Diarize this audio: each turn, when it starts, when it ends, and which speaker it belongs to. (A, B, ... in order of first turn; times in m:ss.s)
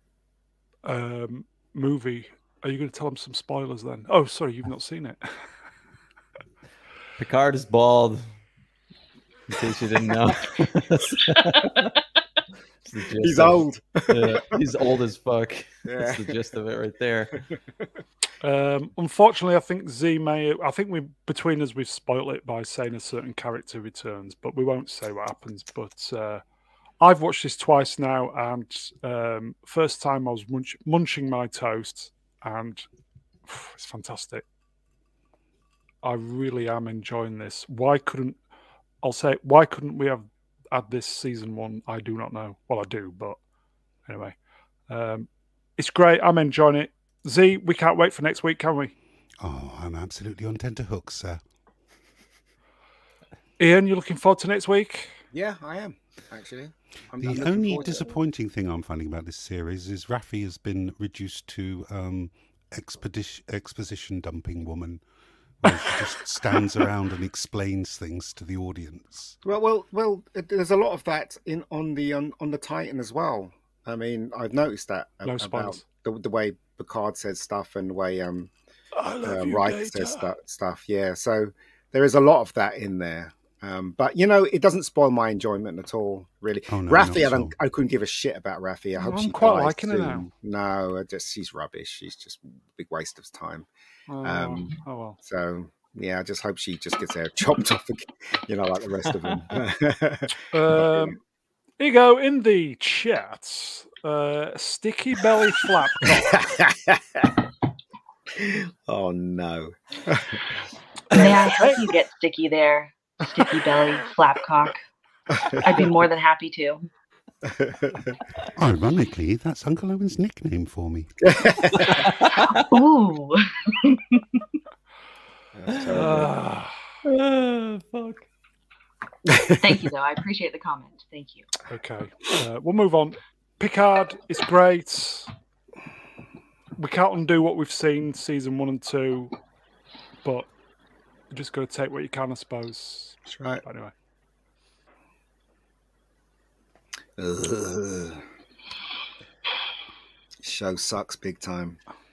0:00.8-0:05.2 A
0:07.2-0:08.2 B
0:09.5-0:11.9 B
0:11.3-0:12.0 C
0:12.8-0:17.4 B
0:13.2-0:14.6 D
0:15.9-0:16.4 D
0:18.4-0:26.4 A
0:27.0-0:32.9 A
0:33.5-0:34.4 A
0:36.0-0:38.4 A
0:39.0-0:43.4 A
0:44.1-0:44.4 A
0:44.9-0:48.9 A
0:49.4-0:51.4 E
0:53.6-0:55.2 A
0:55.3-0:58.2 D
0:57.2-1:05.0 E
1:05.6-1:09.4 E
1:09.4-1:18.5 D
1:15.2-1:15.8 A
1:18.9-1:20.3 A
1:19.2-1:33.7 D
1:26.7-1:27.6 E
1:29.0-1:30.3 A
1:34.1-1:35.2 A
1:34.2-1:41.2 D
1:40.5-1:41.2 A
1:41.8-1:46.4 A
1:46.0-1:47.4 D
1:48.4-1:50.6 D
1:51.1-1:51.8 A
1:51.1-1:54.8 C
1:51.1-1:51.4 D
1:55.3-1:55.9 D
1:55.6-1:56.8 C
1:57.4-1:58.2 D
1:58.6-2:01.1 E
2:01.2-2:02.2 D
2:01.8-2:02.6 B
2:02.4-2:04.4 C
2:05.6-2:06.4 D
2:05.9-2:06.7 A
2:07.0-2:08.3 B
2:09.3-2:09.8 D
2:09.6-2:11.4 C
2:11.7-2:15.3 A
2:16.8-2:19.3 A
2:20.2-2:20.5 A
2:21.3-2:23.9 A
2:23.3-2:23.6 D
2:27.2-2:28.2 D
2:30.4-2:31.8 D